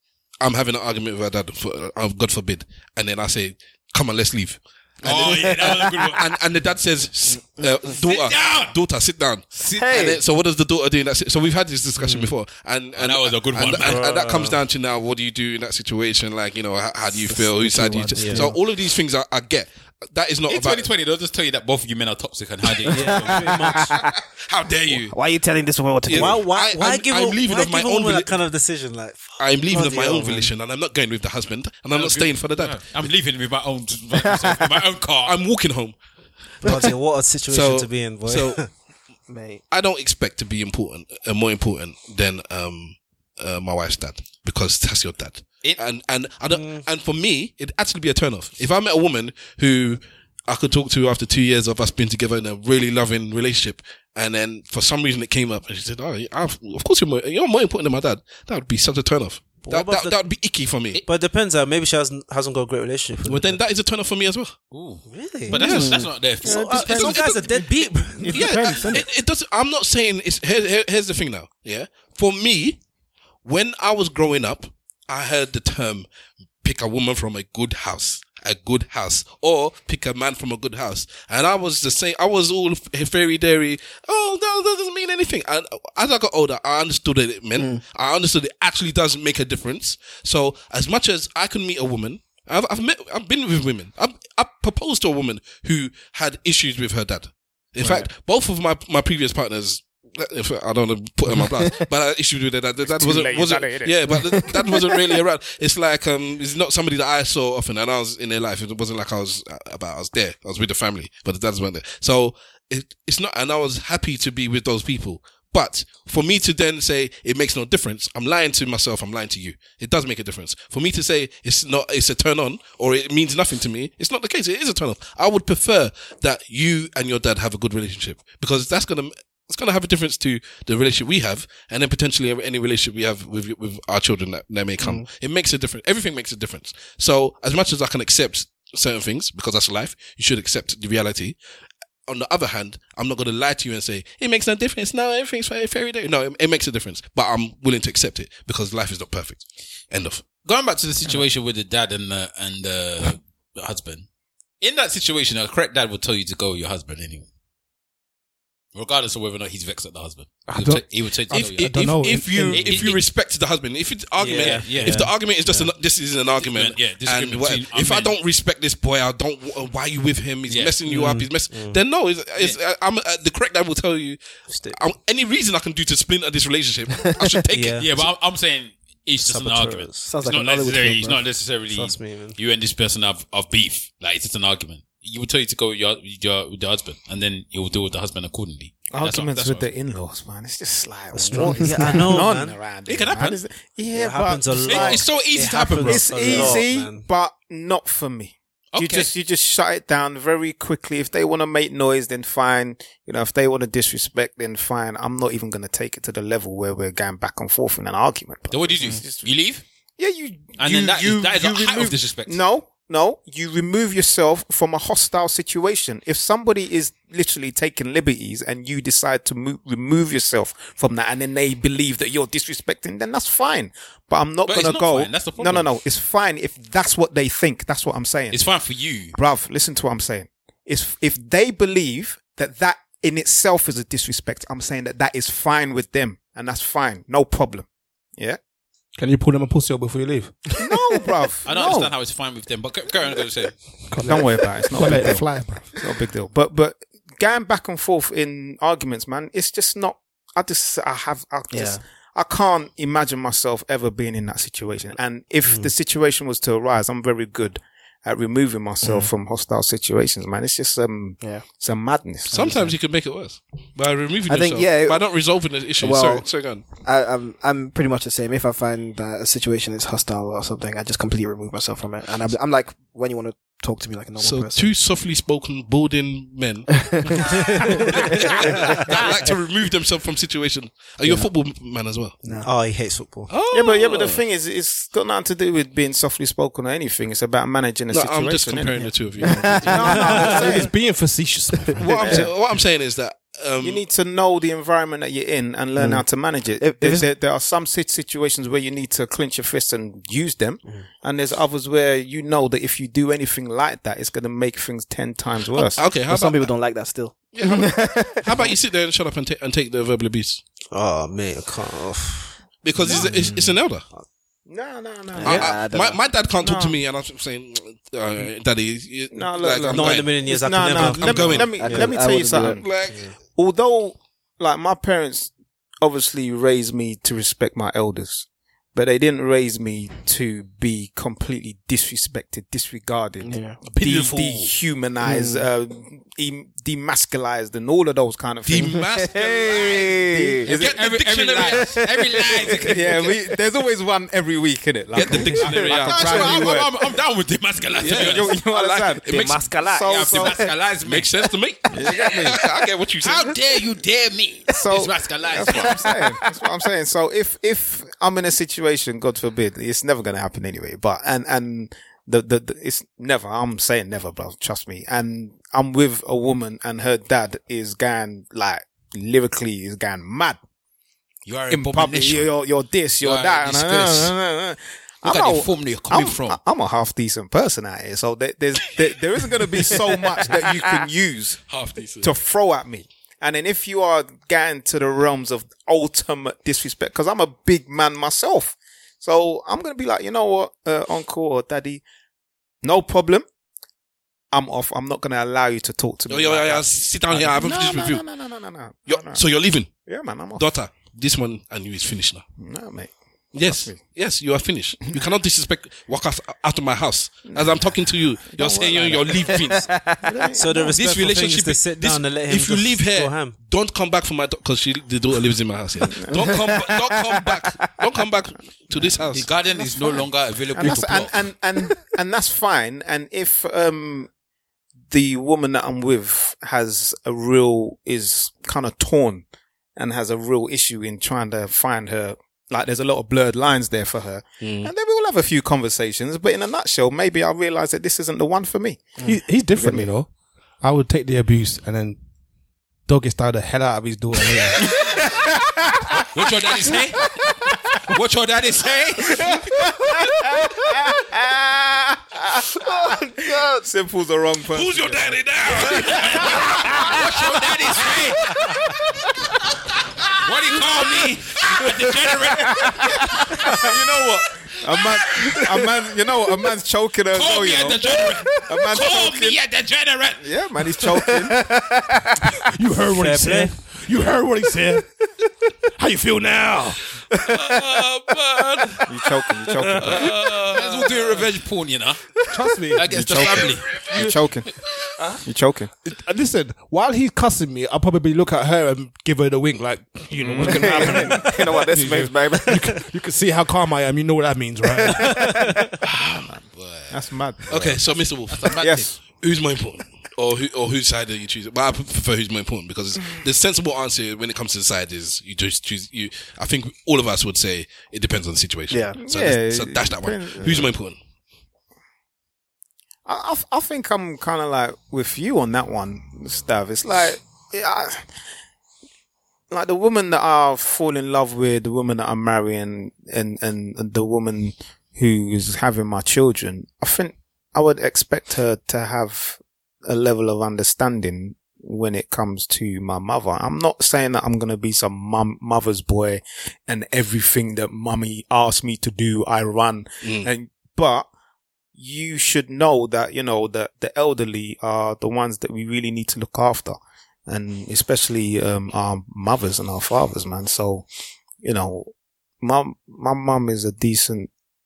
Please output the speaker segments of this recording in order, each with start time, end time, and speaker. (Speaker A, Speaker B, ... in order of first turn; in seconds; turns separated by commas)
Speaker A: 0.4-20.9, Speaker B: 5.0-5.9, Speaker C: 5.0-6.2, Speaker C: 8.0-8.7, Speaker B: 9.6-10.2, Speaker D: 12.0-12.3, Speaker C: 13.0-14.1, Speaker D: 13.8-14.6, Speaker B: 17.3-18.5, Speaker D: 18.2-18.5, Speaker C: 20.5-23.8, Speaker D: 22.9-24.0, Speaker B: 22.9-24.2, Speaker A: 23.7-25.2, Speaker B: 25.1-26.5, Speaker A: 26.0-28.3, Speaker D: 26.1-30.5, Speaker A: 29.4-32.8, Speaker B: 29.7-30.4, Speaker C: 31.9-35.4, Speaker B: 34.2-34.6, Speaker A: 35.2-36.0, Speaker D: 36.6-38.7, Speaker A: 37.5-38.6, Speaker B: 39.3-39.6, Speaker A: 39.7-61.0, Speaker D: 46.5-46.8, Speaker D: 59.6-60.2, Speaker D: 61.1-63.6, Speaker A: 63.2-64.5, Speaker C: 64.7-67.4, Speaker D: 65.1-68.6, Speaker A: 65.5-66.1, Speaker B: 65.6-66.1, Speaker E: 66.4-67.6, Speaker A: 66.9-67.4, Speaker E: 68.2-69.1, Speaker A: 68.3-72.8, Speaker A: 73.5-76.1, Speaker A: 76.6-141.4, Speaker E: 102.9-104.1, Speaker B: 104.2-105.1, Speaker B: 134.8-135.1, Speaker A: 142.1-150.2, Speaker C: 150.4-154.1, Speaker C: 154.6-157.3, Speaker C: 158.8-161.8, Speaker F: 160.5-162.8, Speaker A: 161.3-178.1, Speaker C: 162.5-163.0, Speaker D: 164.2-165.7, Speaker C: 164.3-165.1, Speaker C: 166.3-168.1, Speaker C: 170.5-170.8, Speaker D: 170.9-171.8, Speaker D: 174.5-174.8, Speaker B: 177.1-177.4, Speaker D: 177.5-177.9, Speaker C: 177.8-189.7, Speaker D: 179.4-179.9, Speaker B: 180.0-181.2, Speaker D: 181.7-182.4, Speaker E: 188.9-209.3, Speaker D: 191.1-192.6, Speaker C: 192.9-193.4, Speaker D: 193.9-197.1, Speaker C: 194.7-196.6, Speaker C: 198.7-199.1, Speaker C: 208.5-209.6, Speaker E: 210.0-228.4, Speaker C: 210.6-212.4, Speaker C: 224.5-225.7, Speaker C: 228.3-229.2, Speaker E: 229.2-238.4, Speaker F: 239.0-240.7, Speaker E: 240.6-241.9, Speaker C: 241.5-243.6, Speaker F: 243.9-245.8, Speaker E: 244.0-262.7, Speaker B: 251.5-251.8, Speaker B: 261.2-261.4, Speaker A: 262.3-266.6, Speaker B: 264.3-274.7, Speaker A: 274.2-282.1, Speaker B: 276.9-278.0, Speaker B: 282.2-282.5, Speaker D: 282.4-283.3, Speaker A: 283.3-284.2, Speaker E: 283.5-288.9, Speaker A: 287.9-290.4, Speaker B: 289.2-290.6, Speaker E: 289.6-290.8, Speaker F: 289.7-292.0, Speaker A: 291.8-293.9, Speaker E: 291.9-292.3, Speaker E: 293.6-305.9, Speaker B: 295.8-296.1, Speaker B: 296.6-297.1, Speaker A: 305.5-306.5, Speaker B: 305.9-308.5, Speaker A: 307.3-310.4, Speaker D: 310.7-312.4, Speaker A: 312.6-313.9, Speaker E: 312.9-313.1, Speaker D: 312.9-314.0, Speaker E: 314.5-315.6, Speaker B: 315.2-316.0, Speaker A: 315.2-320.1, Speaker E: 316.4-316.8, Speaker E: 319.1-338.9, Speaker D: 319.7-321.9, Speaker A: 320.7-321.9, Speaker B: 321.4-322.6, Speaker A: 322.4-323.1, Speaker B: 333.2-333.6, Speaker F: 333.9-334.2, Speaker B: 335.0-335.4, Speaker A: 338.4-341.8, Speaker B: 338.8-340.4, Speaker E: 339.5-340.9, Speaker C: 340.4-343.1, Speaker B: 341.6-342.9, Speaker E: 342.5-346.9, Speaker A: 344.9-346.5, Speaker C: 345.7-348.4, Speaker E: 347.8-350.4, Speaker A: 347.8-349.4, Speaker B: 349.1-350.3, Speaker C: 349.7-352.4, Speaker A: 350.8-353.4, Speaker E: 351.7-352.4, Speaker C: 353.0-356.1, Speaker E: 354.5-370.4, Speaker C: 371.3-372.3, Speaker E: 371.5-381.4, Speaker C: 373.0-374.2, Speaker C: 375.0-376.4, Speaker C: 379.6-380.6, Speaker C: 381.5-382.1, Speaker E: 382.0-391.8, Speaker E: 392.6-393.3, Speaker E: 394.3-399.3, Speaker A: 396.1-398.0, Speaker A: 398.9-399.7, Speaker E: 399.8-400.5, Speaker A: 400.4-402.2, Speaker E: 402.4-403.8, Speaker A: 403.3-409.7, Speaker E: 407.3-409.5, Speaker B: 409.3-410.0, Speaker E: 410.0-410.8, Speaker D: 410.4-413.4, Speaker C: 410.7-412.0, Speaker A: 412.3-419.3, Speaker E: 415.9-416.5, Speaker C: 419.1-421.2, Speaker E: 419.4-424.1, Speaker E: 424.9-438.9, Speaker A: 434.4-434.7, Speaker F: 439.0-440.1, Speaker E: 439.6-439.9, Speaker F: 440.6-442.0, Speaker F: 442.9-444.9, Speaker E: 444.9-446.1, Speaker C: 446.1-447.1, Speaker C: 447.7-449.4, Speaker E: 449.1-458.8, Speaker B: 452.5-453.6, Speaker A: 454.5-456.7, Speaker C: 455.6-458.4, Speaker C: 460.2-463.6, Speaker E: 461.9-469.4, Speaker C: 464.7-465.5, Speaker C: 467.1-470.3, Speaker E: 470.2-471.4, Speaker B: 470.9-472.2, Speaker F: 472.4-474.9, Speaker D: 472.9-473.6, Speaker F: 475.7-477.4, Speaker C: 477.3-479.1, Speaker E: 478.9-480.1, Speaker F: 479.5-480.9, Speaker C: 479.8-482.2, Speaker F: 482.3-482.9, Speaker C: 482.7-483.9, Speaker E: 482.9-484.5, Speaker E: 485.2-485.7, Speaker F: 485.8-495.6, Speaker E: 490.1-491.3, Speaker B: 490.4-492.8, Speaker B: 494.9-495.5, Speaker E: 496.3-497.6, Speaker C: 496.5-498.9, Speaker A: 497.5-511.0, Speaker E: 498.6-499.0, Speaker E: 509.0-510.7, Speaker E: 513.1-518.1, Speaker E: 519.5-541.1, Speaker A: 540.0-540.3, Speaker E: 541.7-550.9, Speaker E: 551.4-554.3